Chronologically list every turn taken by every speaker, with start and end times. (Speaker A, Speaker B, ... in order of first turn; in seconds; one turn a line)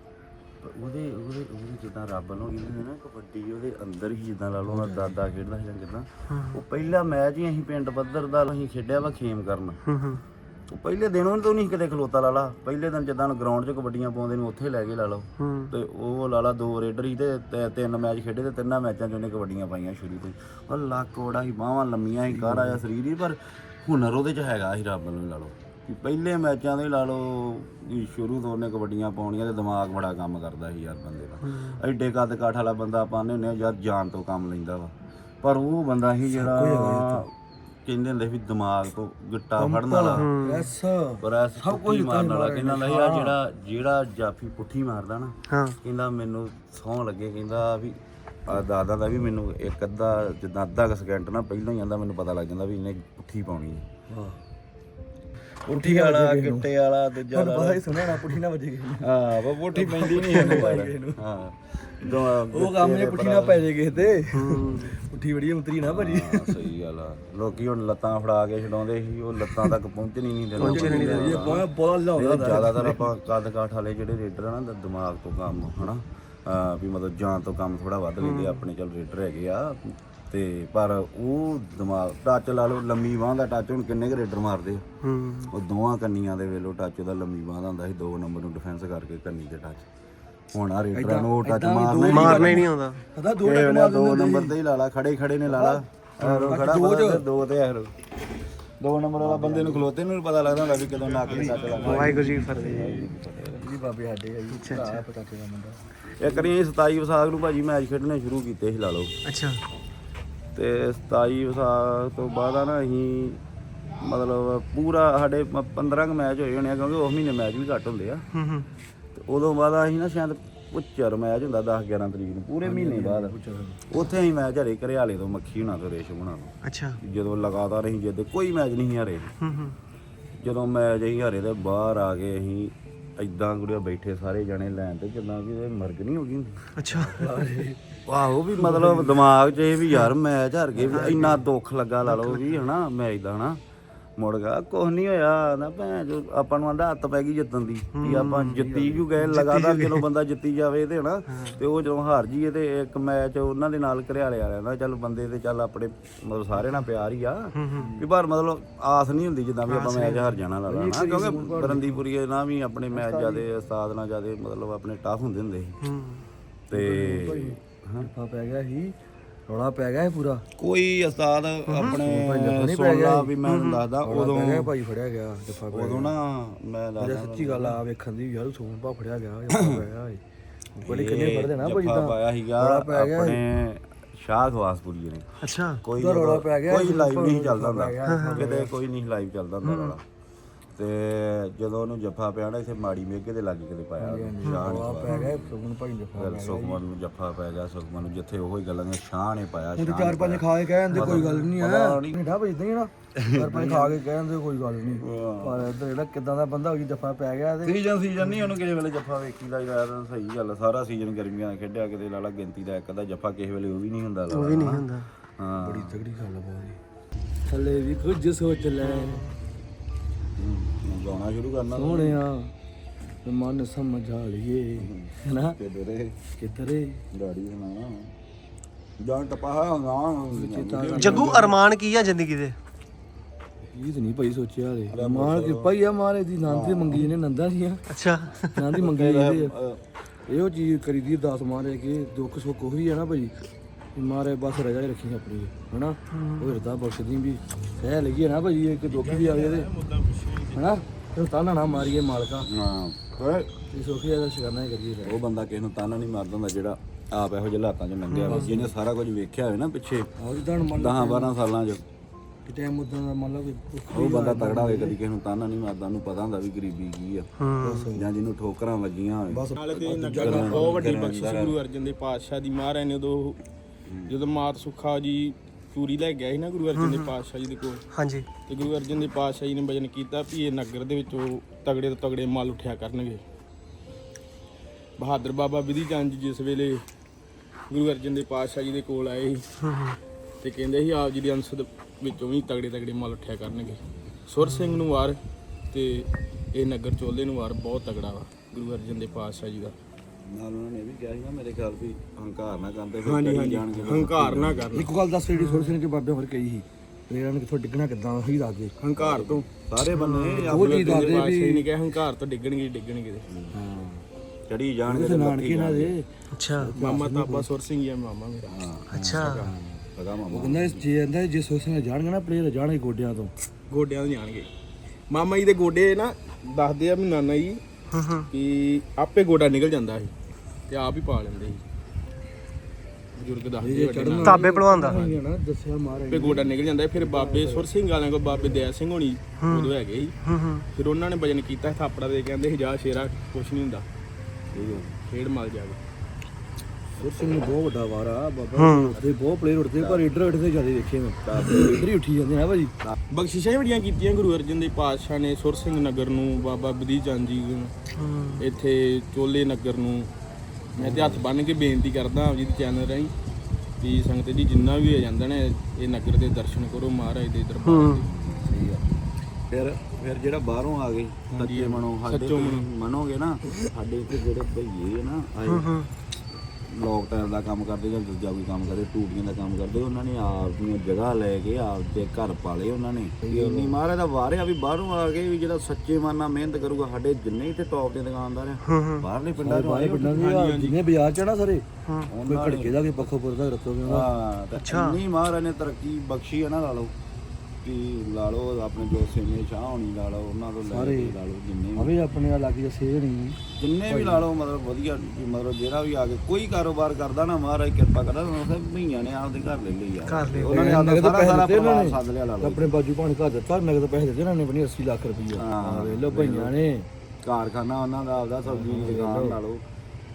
Speaker A: 0.6-9.8
Speaker B: 4.7-5.1
Speaker C: 6.3-6.6
Speaker C: 9.9-10.2
Speaker A: 10.7-37.3
Speaker C: 15.4-15.7
Speaker B: 22.3-22.8
Speaker C: 31.5-31.8
Speaker B: 36.3-37.2
Speaker A: 37.9-40.3
Speaker B: 39.6-43.4
Speaker C: 40.2-40.7
Speaker A: 41.2-53.9
Speaker C: 45.5-45.8
Speaker B: 54.1-54.4
Speaker A: 55.6-58.4
Speaker B: 55.7-56.7
Speaker B: 57.3-59.1
Speaker A: 59.0-64.1
Speaker B: 59.7-61.2
Speaker B: 62.1-66.7
Speaker C: 64.3-65.0
Speaker A: 65.8-84.8
Speaker B: 70.6-73.0
Speaker C: 70.6-71.6
Speaker C: 78.2-78.6
Speaker C: 85.0-85.5
Speaker A: 85.5-89.8
Speaker A: 90.5-92.6
Speaker B: 90.9-94.5
Speaker C: 92.1-93.0
Speaker A: 93.4-97.9
Speaker B: 95.5-97.2
Speaker A: 98.8-103.7
Speaker B: 99.2-99.8
Speaker D: 100.7-102.1
Speaker B: 101.3-102.8
Speaker C: 101.8-103.0
Speaker B: 103.5-106.5
Speaker C: 104.5-105.0
Speaker A: 106.2-109.1
Speaker C: 109.2-109.6
Speaker A: 110.5-113.4
Speaker A: 113.9-118.2
Speaker C: 118.3-118.7
Speaker A: 119.1-123.3
Speaker B: 122.6-123.8
Speaker A: 123.9-129.3
Speaker C: 126.6-127.0
Speaker C: 129.4-129.8
Speaker A: 130.4-136.7
Speaker C: 136.8-137.2
Speaker B: 136.9-138.0
Speaker A: 138.1-143.6
Speaker B: 138.6-139.1
Speaker B: 140.8-141.4
Speaker C: 140.9-141.4
Speaker C: 142.1-142.6
Speaker A: 144.2-165.8
Speaker C: 147.9-148.6
Speaker B: 148.5-149.1
Speaker C: 149.2-150.0
Speaker C: 151.3-151.6
Speaker C: 157.6-157.9
Speaker C: 159.7-160.4
Speaker B: 160.7-162.0
Speaker B: 162.9-163.4
Speaker C: 165.8-166.3
Speaker A: 166.7-168.1
Speaker B: 166.7-168.9
Speaker B: 169.5-170.4
Speaker A: 170.6-174.7
Speaker C: 171.7-172.0
Speaker B: 171.8-173.3
Speaker C: 173.5-173.8
Speaker B: 174.0-176.1
Speaker A: 175.7-177.8
Speaker B: 177.0-180.2
Speaker B: 180.8-183.4
Speaker A: 180.8-190.0
Speaker C: 185.4-185.8
Speaker B: 186.0-188.7
Speaker C: 188.0-188.4
Speaker C: 189.6-189.9
Speaker A: 190.7-195.5
Speaker B: 194.0-196.8
Speaker C: 194.4-195.3
Speaker A: 196.1-202.2
Speaker B: 199.8-207.8
Speaker C: 200.9-201.4
Speaker A: 203.1-204.0
Speaker A: 205.0-205.7
Speaker A: 207.6-214.8
Speaker C: 214.3-215.1
Speaker A: 215.4-216.0
Speaker B: 215.6-216.8
Speaker B: 217.5-219.2
Speaker C: 218.8-219.4
Speaker A: 220.4-222.2
Speaker B: 221.7-222.5
Speaker B: 223.2-225.6
Speaker A: 224.8-226.2
Speaker B: 226.4-227.0
Speaker A: 227.1-228.1
Speaker A: 229.0-231.4
Speaker B: 230.3-231.6
Speaker C: 230.9-232.6
Speaker B: 233.7-237.8
Speaker A: 234.9-235.7
Speaker A: 236.5-237.1
Speaker C: 237.9-238.7
Speaker B: 238.6-239.5
Speaker A: 238.8-239.8
Speaker B: 240.3-243.3
Speaker B: 243.9-249.7
Speaker C: 246.1-246.5
Speaker D: 248.8-250.7
Speaker B: 250.5-252.5
Speaker A: 251.8-253.6
Speaker B: 253.7-255.2
Speaker A: 255.0-260.1
Speaker C: 258.1-258.5
Speaker B: 258.2-258.7
Speaker B: 260.2-261.3
Speaker A: 260.7-261.8
Speaker B: 262.4-264.9
Speaker A: 263.9-267.3
Speaker C: 267.4-267.9
Speaker B: 267.6-268.1
Speaker A: 267.9-269.5
Speaker B: 269.3-270.8
Speaker D: 269.6-273.4
Speaker A: 270.0-271.6
Speaker A: 273.9-274.1
Speaker D: 274.1-277.8
Speaker C: 276.8-277.1
Speaker C: 277.9-278.3
Speaker D: 278.4-283.2
Speaker D: 285.0-286.8
Speaker D: 287.7-289.4
Speaker C: 289.6-290.0
Speaker D: 290.4-295.2
Speaker C: 294.4-294.8
Speaker D: 295.7-299.8
Speaker A: 300.2-304.7
Speaker D: 303.0-304.9
Speaker B: 304.7-308.7
Speaker C: 305.3-305.8
Speaker D: 308.8-309.5
Speaker A: 309.0-311.2
Speaker C: 309.9-310.4
Speaker D: 310.4-313.3
Speaker B: 310.5-311.7
Speaker A: 313.3-313.6
Speaker B: 313.5-314.0
Speaker A: 314.5-315.9
Speaker B: 314.9-317.5
Speaker C: 316.3-316.7
Speaker D: 316.8-318.5
Speaker A: 318.4-320.8
Speaker C: 318.9-319.5
Speaker B: 320.3-323.3
Speaker D: 323.7-324.5
Speaker D: 325.1-327.6
Speaker C: 327.9-328.3
Speaker D: 328.3-330.1
Speaker D: 330.7-331.6
Speaker D: 333.1-335.1
Speaker B: 333.6-337.7
Speaker C: 334.2-335.1
Speaker D: 336.1-340.1
Speaker B: 338.3-338.6
Speaker C: 339.4-340.6
Speaker D: 340.7-343.9
Speaker A: 344.5-345.0
Speaker D: 345.0-345.8
Speaker B: 347.0-352.7
Speaker A: 347.0-347.5
Speaker C: 348.6-349.0
Speaker A: 349.8-350.0
Speaker A: 351.2-351.9
Speaker D: 353.1-357.7
Speaker C: 357.9-358.5
Speaker D: 358.4-360.1
Speaker B: 360.8-361.2
Speaker D: 360.8-363.1
Speaker D: 363.8-368.1
Speaker C: 367.6-368.0
Speaker A: 368.0-368.9
Speaker A: 369.5-375.7
Speaker D: 371.3-372.7
Speaker C: 375.5-375.9
Speaker A: 376.6-390.4
Speaker B: 383.2-383.8
Speaker C: 388.6-389.1
Speaker B: 389.4-391.6
Speaker D: 390.1-390.8
Speaker C: 391.9-392.1
Speaker A: 392.1-392.8
Speaker B: 392.2-394.1
Speaker A: 393.9-396.9
Speaker C: 394.6-395.0
Speaker A: 397.6-401.9
Speaker B: 400.6-401.1
Speaker B: 401.8-404.2
Speaker A: 403.6-412.7
Speaker C: 410.1-410.6
Speaker B: 410.5-416.9
Speaker A: 415.3-416.5
Speaker A: 417.2-419.6
Speaker B: 418.4-419.4